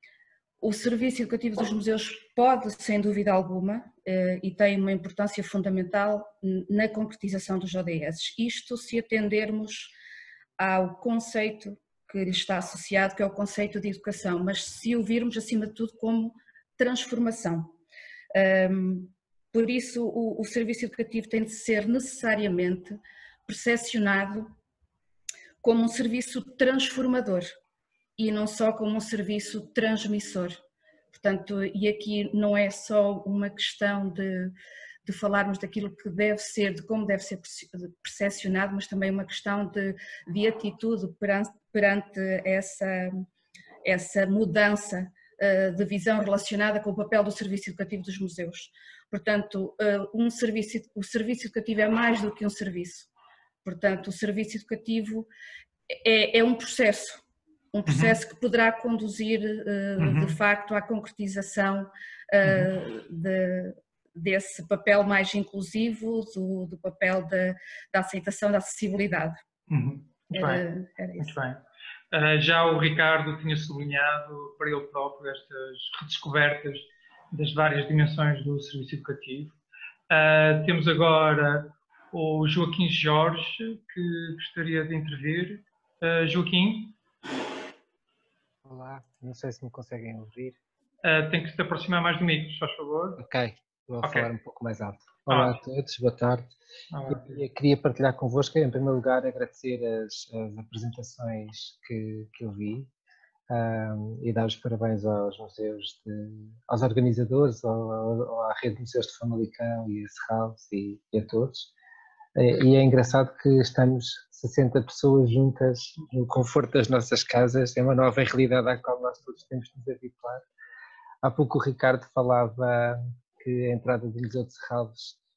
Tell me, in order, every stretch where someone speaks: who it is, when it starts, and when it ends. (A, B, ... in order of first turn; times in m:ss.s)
0:00.6-0:09.9 A
0:10.6-0:17.8 A
0:18.3-0:24.5 A
0:25.6-0:27.5 A
0:28.2-0:30.6 A
0:31.1-0:34.5 A
0:35.0-0:43.2 A
0:43.8-0:53.1 A
0:53.6-0:55.3 A
0:55.9-1:09.4 A
0:57.9-0:58.2 B
1:00.0-1:00.4 B
1:02.4-1:02.7 B
1:09.7-1:10.6 B
1:10.3-1:11.4 A
1:11.2-1:11.6 B
1:12.1-1:19.5 B
1:20.1-1:27.0 B
1:28.6-1:30.6 C
1:31.0-1:33.2 B
1:33.2-1:36.6 C
1:34.0-1:34.3 B
1:35.3-1:35.6 B
1:36.9-1:37.4 B
1:37.1-1:42.9 C
1:43.5-1:51.7 C
1:52.4-2:00.4 C
2:01.2-2:05.2 C